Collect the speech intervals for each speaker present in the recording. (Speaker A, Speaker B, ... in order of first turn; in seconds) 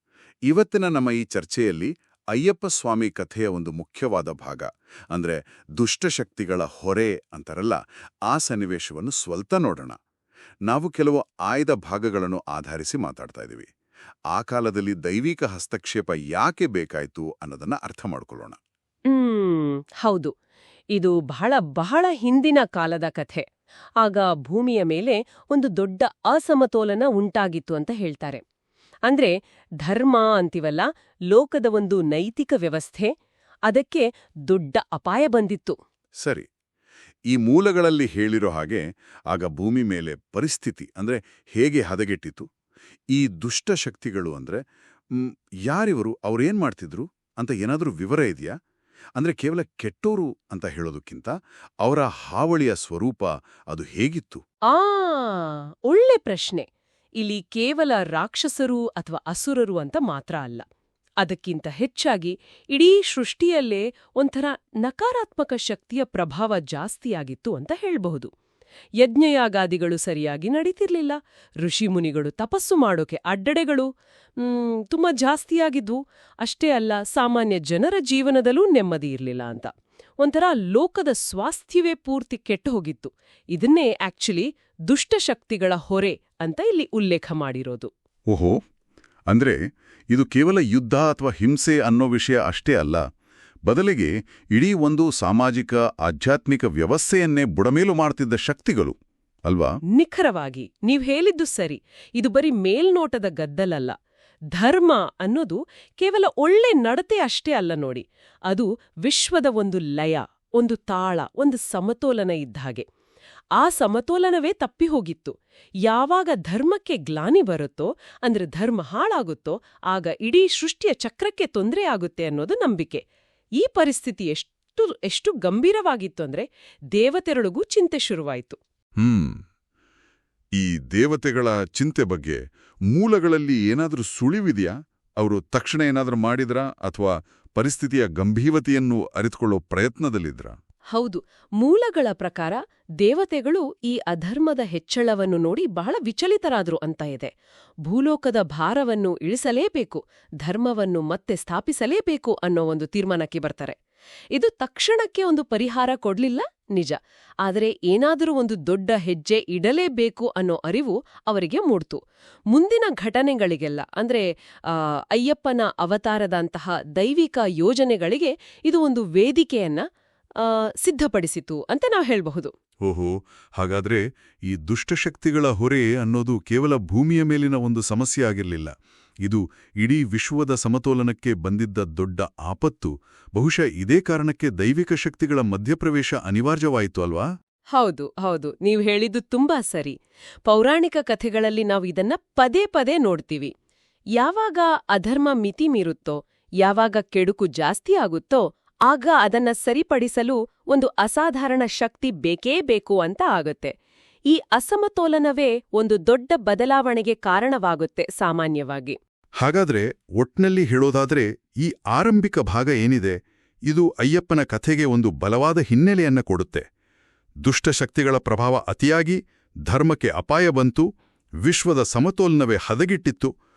Speaker A: 0.5-7.8, 8.3-9.9, 10.7-13.7, 14.3-18.6, 37.3-42.5, 43.1-44.6, 45.1-48.5, 49.2-51.3, 51.8-54.4, 89.3-89.6, 90.1-93.0, 93.7-99.7, 129.0-129.4, 130.6-140.6, 172.8-178.7, 179.2-187.2, 209.4-213.2, 213.7-216.6, 217.4-220.8, 221.4-223.3
Speaker B: 19.1-20.3, 20.9-23.4, 24.0-28.4, 29.1-29.3, 29.8-33.1, 33.7-35.8, 54.7-56.6, 57.2-60.6, 61.2-68.3, 69.0-87.9, 99.9-103.9, 104.5-112.8, 113.6-123.0, 123.6-128.6, 140.9-147.3, 147.8-153.8, 154.3-162.0, 162.5-169.8, 170.4-172.5, 187.7-189.9, 190.4-193.5, 194.2-203.7, 204.3-209.0